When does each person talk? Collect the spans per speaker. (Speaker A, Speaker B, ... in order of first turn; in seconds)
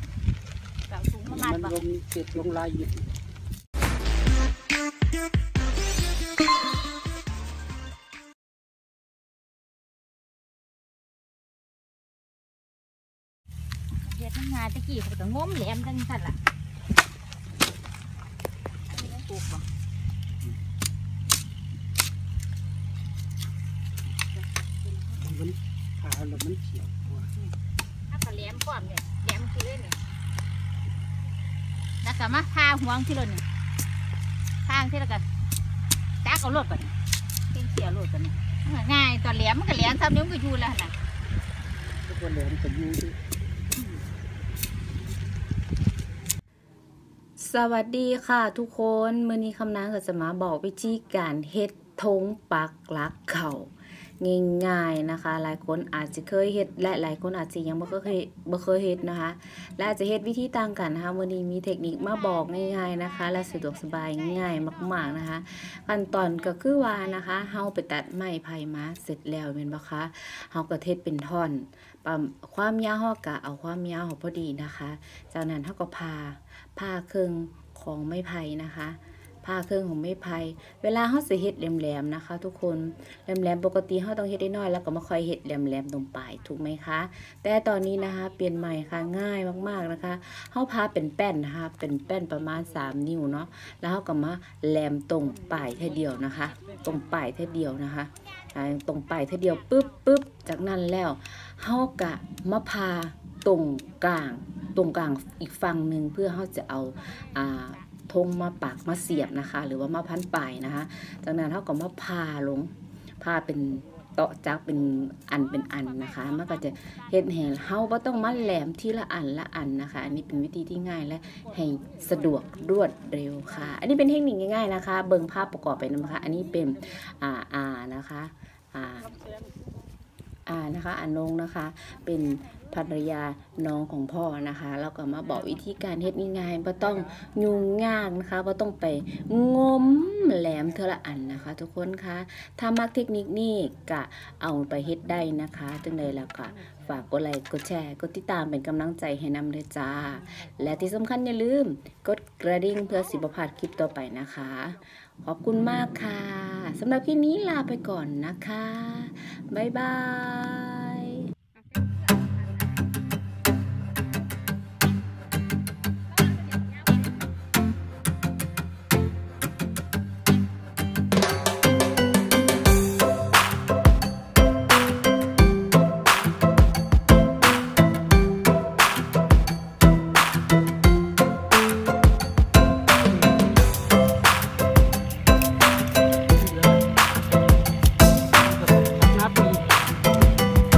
Speaker A: 0.9-1.8, 14.0-16.4, 18.9-19.7, 28.1-30.0, 32.0-33.4, 34.6-35.2, 36.2-36.9, 37.5-40.9
Speaker B: 1.3-3.0, 25.1-27.3, 42.1-43.2, 188.8-189.6
Speaker C: 47.4-129.2, 130.4-161.3